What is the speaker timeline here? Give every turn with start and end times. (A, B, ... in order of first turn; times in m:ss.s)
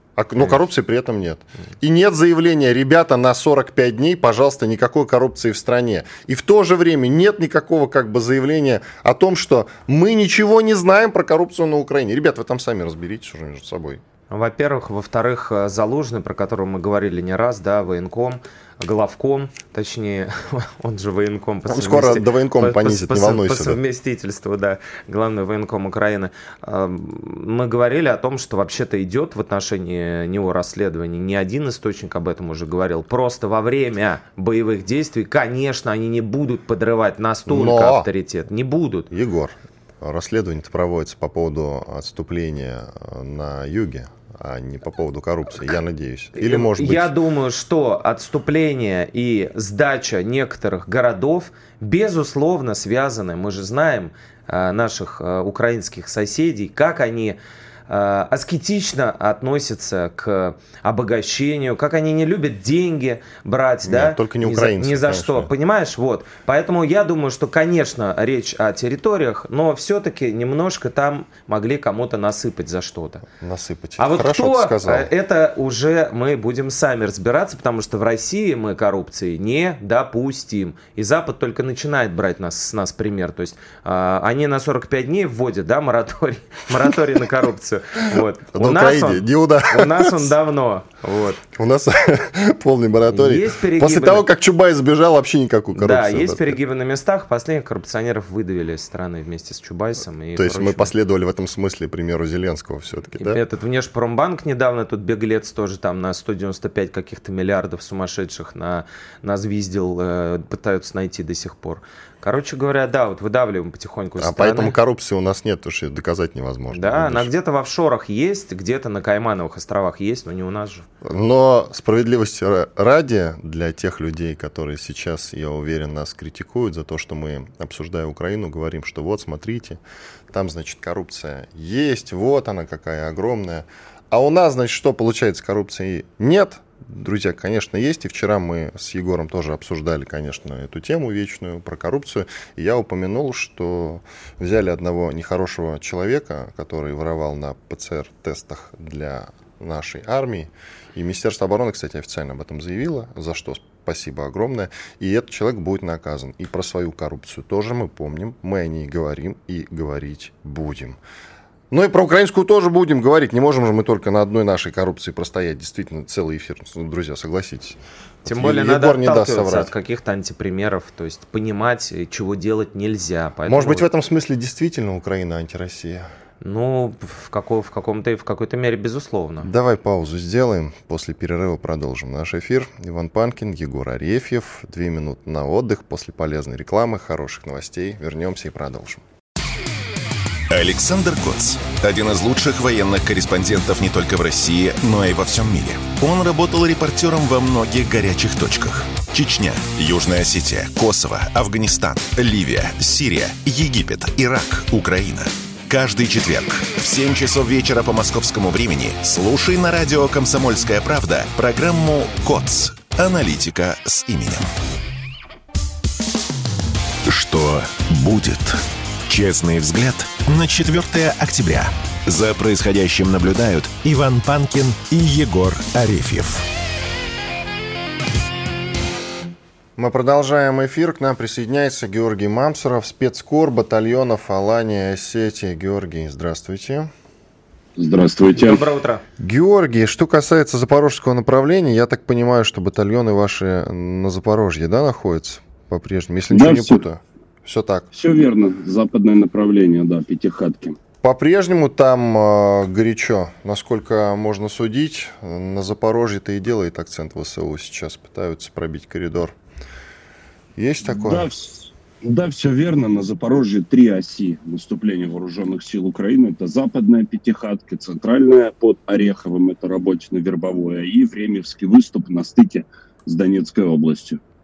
0:00.2-0:14.0 A
0:14.3-0:39.1 B
0:21.7-0:23.8 A
0:37.4-0:38.1 A
0:39.1-0:47.1 A
0:46.4-0:57.4 B
0:57.9-1:13.2 B
1:03.8-1:05.5 A
1:13.4-1:15.1 A
1:14.0-1:31.4 B
1:28.1-1:30.3 A
1:31.5-1:36.6 A
1:33.1-1:34.2 B
1:35.8-1:40.9 B
1:40.4-1:43.4 A
1:43.2-1:54.7 B
1:54.2-1:57.3 A
1:56.7-2:00.9 B
2:01.0-2:41.0 A
2:41.7-2:49.7 A
2:48.2-2:53.8 B
2:53.5-2:56.1 A
2:56.4-2:59.5 B
2:59.4-3:09.0 A
3:10.5-3:34.5 C
3:37.0-3:46.4 C
3:49.8-3:56.9 A
3:57.8-3:58.6 D
3:58.3-3:59.0 B
3:59.2-4:07.9 A
4:06.3-4:06.8 D
4:07.9-4:10.8 D
4:11.0-4:19.3 A
4:20.6-4:21.3 A
4:20.8-4:34.2 D